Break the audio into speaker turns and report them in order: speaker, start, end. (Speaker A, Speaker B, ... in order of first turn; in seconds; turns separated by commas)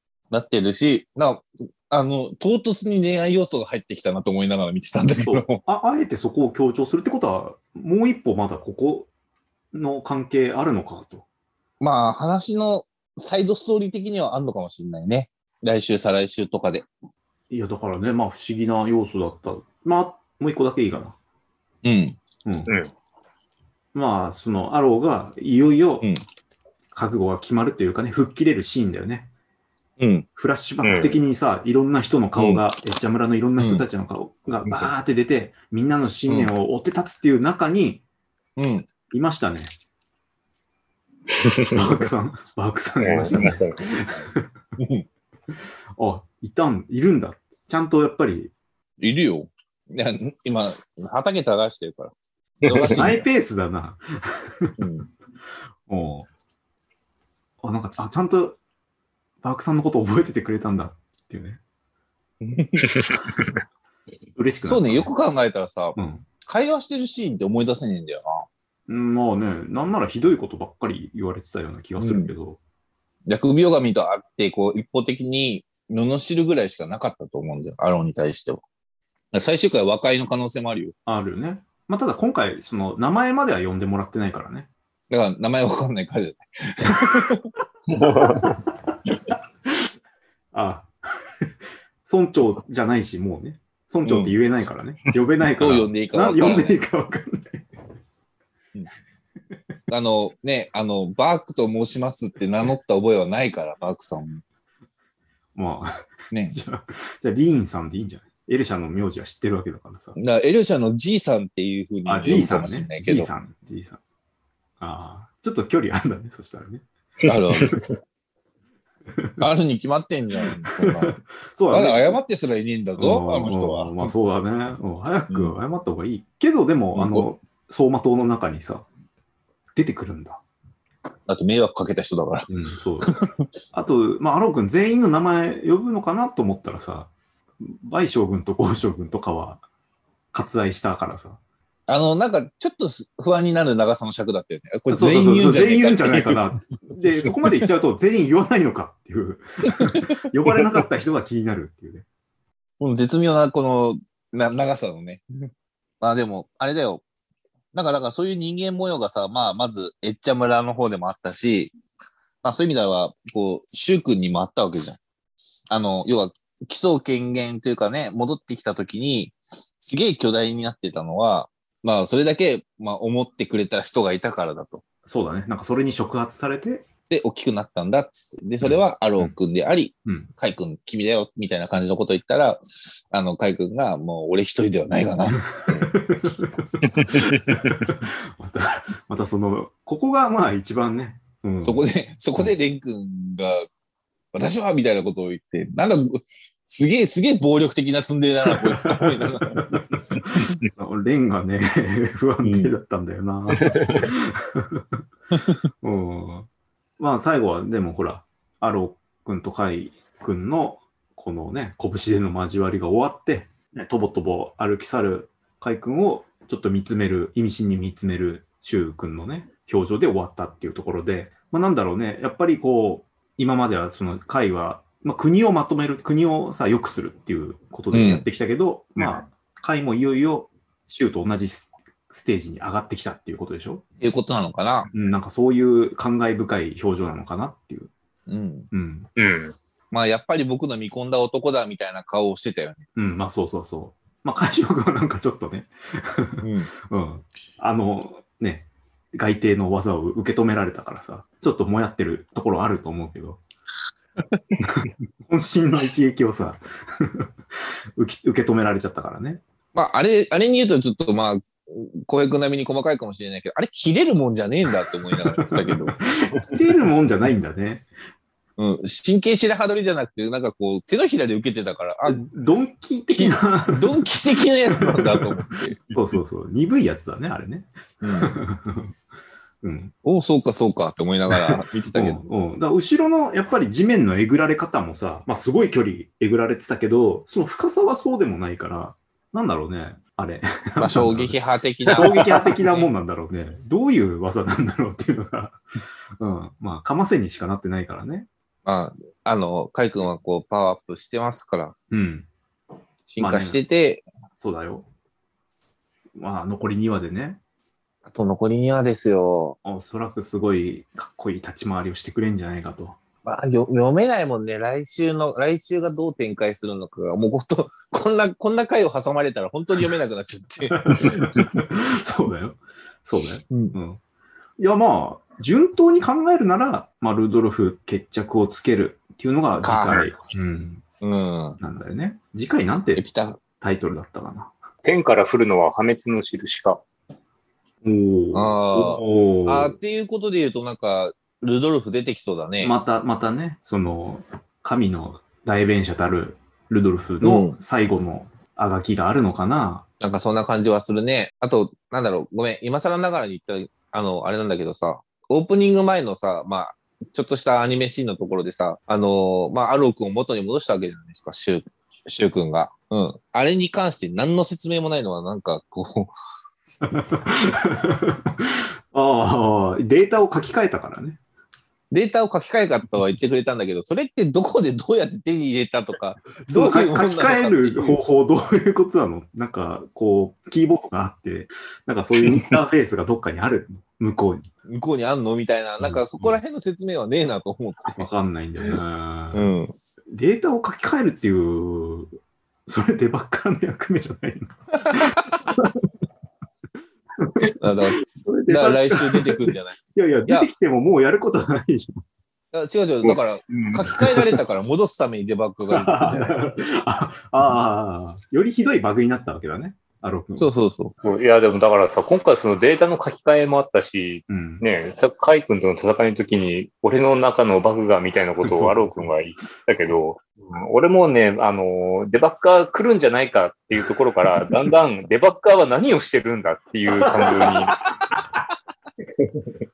Speaker A: 0.3-5.6, Speaker B: 5.2-9.1, Speaker B: 9.7-11.2, Speaker A: 11.8-16.9, Speaker B: 17.5-21.2, Speaker A: 21.8-22.2, Speaker B: 22.5-22.7, Speaker B: 23.9-26.1, Speaker B: 26.9-29.3, Speaker A: 30.0-30.3, Speaker B: 30.4-38.0, Speaker C: 30.8-31.2, Speaker A: 32.4-32.6, Speaker A: 33.6-33.8, Speaker A: 38.6-38.9, Speaker B: 39.1-39.7, Speaker C: 41.3-41.7, Speaker B: 41.7-44.5, Speaker C: 43.0-43.8, Speaker A: 44.8-45.0, Speaker B: 46.0-48.5, Speaker A: 49.0-53.2, Speaker C: 52.6-52.9, Speaker B: 52.8-54.8, Speaker A: 54.8-55.1, Speaker B: 55.9-56.3, Speaker B: 57.6-58.6, Speaker B: 59.4-61.6, Speaker A: 62.4-62.9, Speaker C: 63.0-63.5, Speaker B: 64.4-65.1, Speaker A: 64.7-68.5, Speaker B: 66.0-66.3, Speaker B: 68.9-72.6, Speaker A: 72.0-72.3, Speaker A: 73.3-78.6, Speaker A: 79.3-81.0, Speaker B: 81.1-84.7, Speaker A: 85.1-87.5, Speaker C: 87.9-88.5, Speaker B: 88.3-89.3, Speaker B: 90.5-90.9, Speaker B: 92.0-97.7, Speaker A: 94.0-94.3, Speaker A: 95.6-96.8, Speaker A: 99.9-104.4, Speaker B: 105.5-110.2, Speaker A: 106.3-106.6, Speaker A: 110.2-113.3, Speaker B: 112.1-114.0, Speaker B: 114.8-116.8, Speaker A: 117.3-117.8, Speaker A: 119.4-121.2, Speaker B: 120.8-122.2, Speaker A: 121.7-124.1, Speaker B: 123.0-128.8, Speaker A: 125.3-125.6, Speaker A: 126.9-127.3, Speaker B: 129.8-130.4, Speaker A: 131.3-133.5, Speaker B: 132.5-133.2, Speaker B: 133.7-137.1, Speaker B: 137.6-139.6, Speaker B: 140.3-141.4, Speaker A: 141.9-146.4, Speaker B: 144.9-152.1, Speaker A: 147.2-147.6, Speaker A: 149.7-150.7, Speaker A: 152.8-155.2, Speaker A: 156.0-157.0, Speaker A: 157.7-161.7, Speaker A: 162.4-165.0, Speaker A: 165.7-174.8, Speaker B: 175.1-176.9, Speaker A: 177.1-185.9, Speaker B: 178.6-179.3, Speaker B: 185.6-192.5, Speaker C: 187.0-187.6, Speaker A: 191.6-193.7, Speaker A: 194.3-199.6, Speaker B: 199.5-204.8, Speaker A: 202.4-202.7, Speaker C: 203.6-204.1, Speaker B: 205.8-206.5, Speaker B: 207.0-233.8, Speaker A: 227.9-228.3, Speaker A: 234.0-234.9, Speaker B: 234.9-237.9, Speaker A: 238.3-238.7, Speaker B: 238.7-239.1, Speaker C: 239.2-239.6, Speaker A: 239.9-242.8, Speaker B: 243.0-253.4, Speaker A: 246.4-246.7, Speaker B: 254.6-257.3, Speaker B: 258.0-259.4, Speaker A: 259.8-266.0, Speaker B: 265.4-267.9, Speaker A: 268.6-272.3, Speaker B: 272.1-274.1, Speaker A: 273.1-275.8, Speaker B: 274.7-275.2, Speaker B: 275.9-278.9, Speaker A: 278.0-278.4, Speaker B: 279.6-279.9, Speaker A: 280.0-282.2, Speaker B: 281.3-291.4, Speaker A: 290.8-292.9, Speaker B: 291.9-295.6, Speaker B: 296.2-298.3, Speaker A: 298.6-301.7, Speaker B: 301.9-302.3, Speaker A: 303.1-304.0, Speaker B: 303.2-303.6, Speaker B: 304.4-304.9, Speaker B: 306.2-307.4, Speaker A: 308.1-309.6, Speaker B: 309.6-313.0, Speaker A: 313.2-321.5, Speaker B: 320.7-324.0, Speaker A: 323.5-323.8, Speaker B: 324.6-330.8, Speaker A: 329.6-330.1, Speaker A: 331.0-331.6, Speaker B: 331.6-334.5, Speaker A: 333.0-333.4, Speaker C: 334.8-336.8, Speaker B: 337.8-339.8, Speaker A: 338.3-342.8, Speaker B: 342.6-349.9, Speaker A: 347.2-347.6, Speaker A: 350.0-366.1, Speaker A: 366.6-367.0, Speaker B: 366.8-371.2, Speaker A: 371.9-378.0, Speaker B: 376.5-384.5, Speaker A: 384.7-388.0, Speaker B: 385.8-386.4, Speaker B: 388.0-389.5, Speaker A: 389.3-389.7, Speaker B: 390.1-392.1, Speaker B: 392.7-395.8, Speaker A: 394.9-395.2, Speaker B: 397.2-397.5, Speaker A: 397.6-400.5, Speaker B: 398.1-402.0, Speaker A: 402.5-406.4, Speaker B: 404.0-404.3, Speaker B: 405.7-410.5, Speaker A: 410.4-410.9, Speaker C: 411.0-427.8, Speaker B: 414.3-414.6, Speaker B: 418.4-419.1, Speaker B: 427.0-427.4